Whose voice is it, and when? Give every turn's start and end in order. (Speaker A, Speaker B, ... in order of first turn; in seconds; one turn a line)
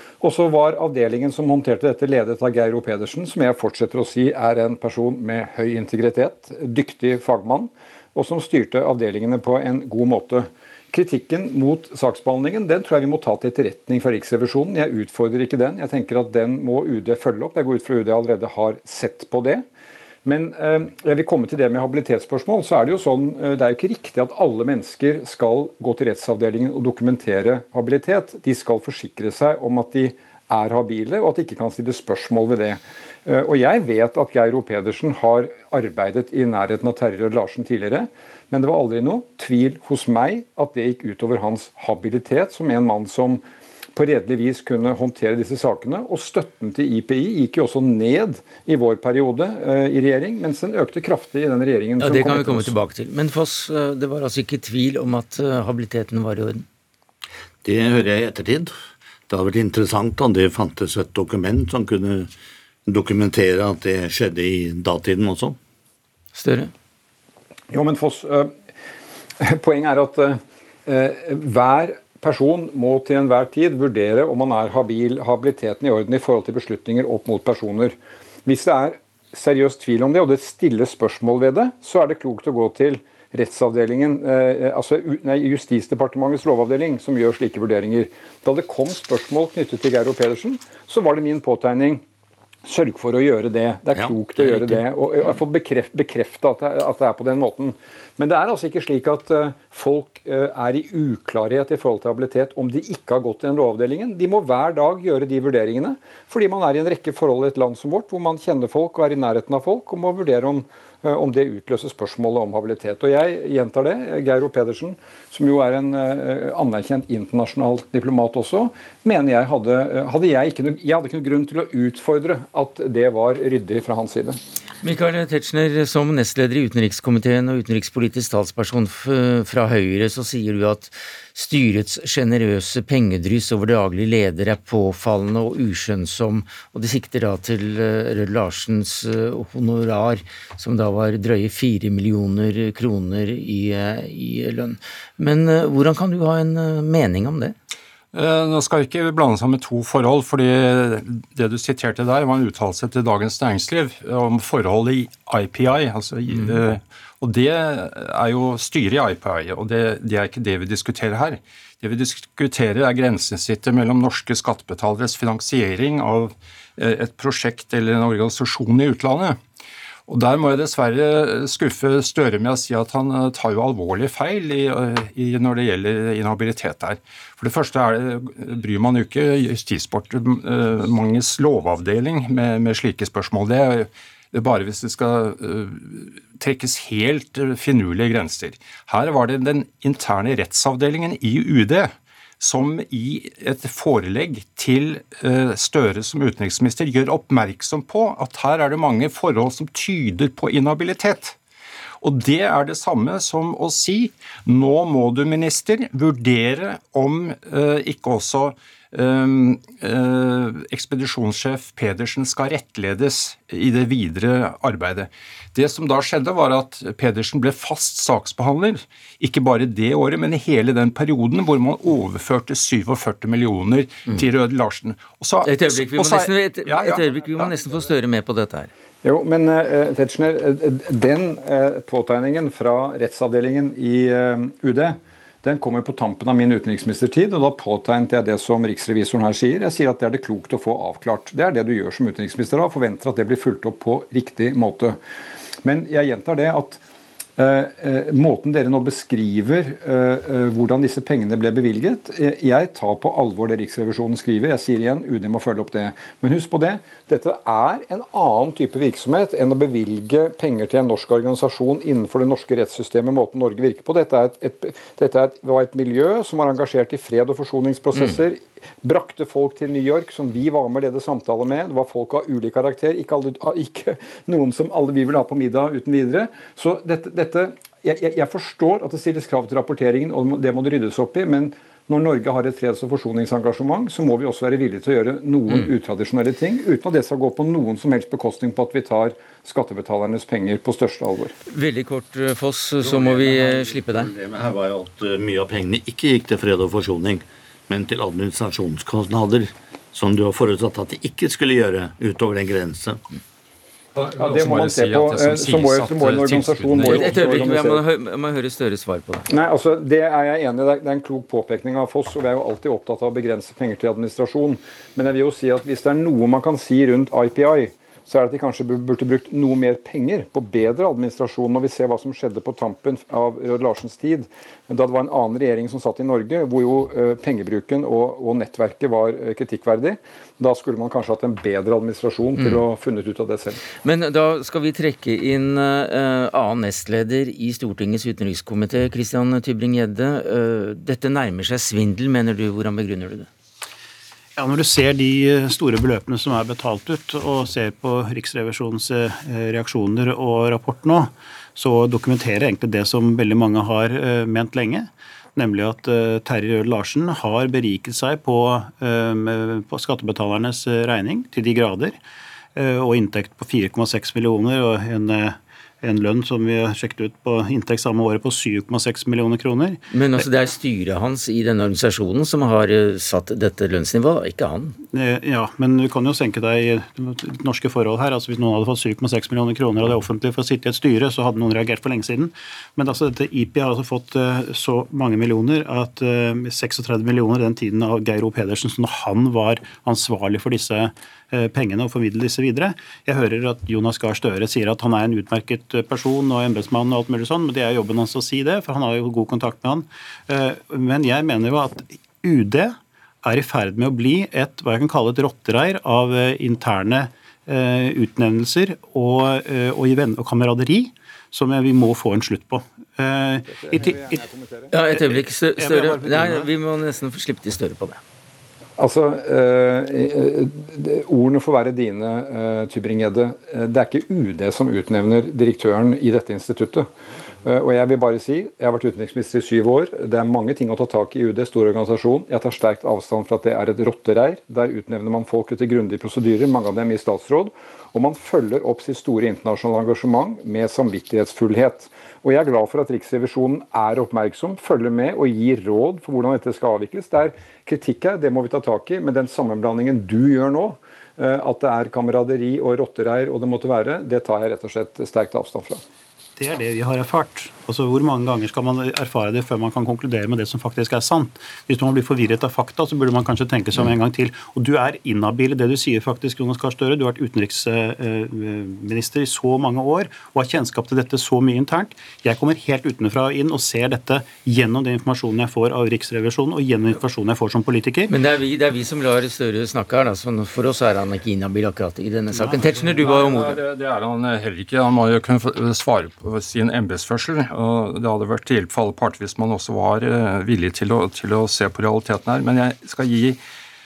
Speaker A: 0.2-19.6
Speaker A: 20.2-43.4
Speaker A: 43.9-52.7
Speaker B: 52.0-56.6
Speaker C: 57.6-58.7
Speaker C: 59.3-62.3
Speaker C: 62.9-65.6
Speaker B: 66.3-66.7
Speaker A: 67.7-68.5
Speaker A: 69.4-77.9
Speaker A: 78.5-92.0
Speaker A: 92.7-124.4
Speaker B: 124.8-147.5
Speaker D: 148.1-169.4
Speaker D: 170.1-201.3
Speaker D: 202.0-227.6
Speaker B: 225.4-228.7
Speaker A: 229.0-245.0
Speaker A: 245.6-246.8
Speaker A: 247.4-291.3
Speaker B: 291.5-294.1
Speaker C: 292.8-303.0
Speaker A: 304.0-307.8
Speaker D: 304.1-307.5
Speaker B: 306.8-309.2
Speaker A: 309.3-333.6
Speaker B: 333.8-343.3
Speaker E: 344.4-361.9
Speaker E: 362.6-370.2
Speaker B: 369.9-374.8
Speaker E: 374.9-414.2
Speaker A: 413.5-414.8
Speaker B: 414.7-418.0
Speaker E: 414.9-416.5
Speaker A: 418.8-426.9
Speaker A: 427.4-455.8
Speaker E: 456.4-478.1
Speaker B: 478.1-483.6
Speaker D: 482.7-493.4